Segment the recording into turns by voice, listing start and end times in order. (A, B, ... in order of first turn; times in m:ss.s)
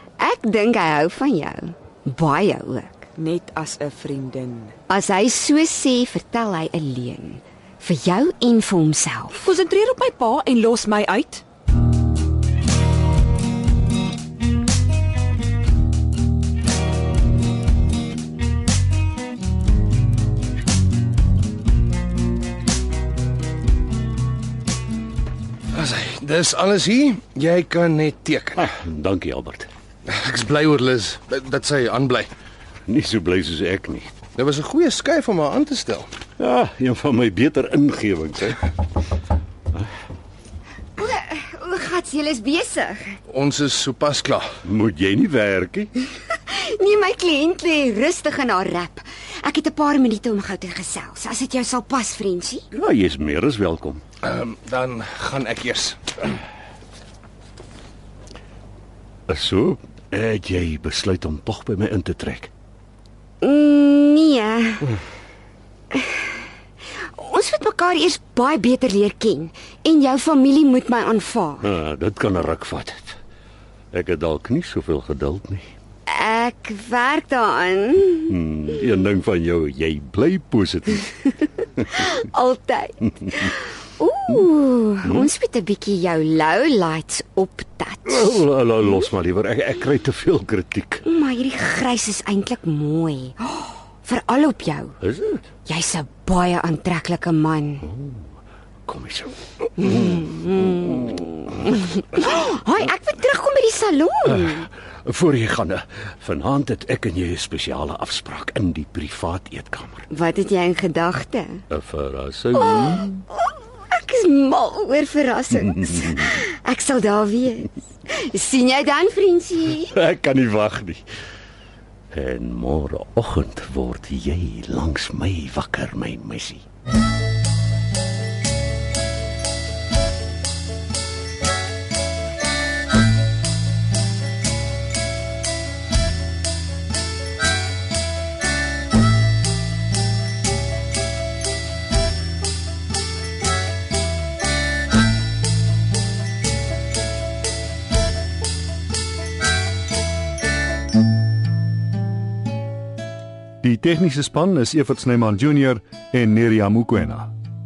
0:00.2-0:03.0 A
0:03.2-0:04.7 B
0:04.9-0:09.4 A
0:09.3-0:11.4 B
0:25.7-0:28.6 C
0:28.6-0:29.7 D
0:30.1-0:32.3 C
0:32.9-0:34.1 D
0:34.3-0:36.1 C
0:36.4-0:38.7 D
0:41.0-0:43.2 A
0:43.3-0:44.5 C
0:44.6-0:45.9 D
0:46.3-0:52.6 A
0:52.7-0:54.0 D
0:54.2-0:56.0 C
0:59.3-1:02.5 D
1:03.4-1:04.9 A
1:05.9-1:06.2 A
1:07.1-1:11.7 A
1:11.6-1:13.2 D
1:13.9-1:15.7 D
1:16.1-1:18.4 A
1:18.3-1:21.1 D
1:21.8-1:29.0 A
1:28.1-1:31.0 D
1:31.0-1:35.0 A
1:35.0-1:35.4 D
1:35.6-1:37.8 A
1:37.8-1:38.3 D
1:38.8-1:40.2 D
1:39.8-1:44.7 A
1:45.0-1:50.1 D
1:50.1-1:51.6 A
1:51.7-1:53.1 D
1:52.5-1:59.9 A
1:55.9-1:56.3 D
1:59.9-2:01.0 D
2:02.1-2:06.6 D
2:33.6-2:37.3 E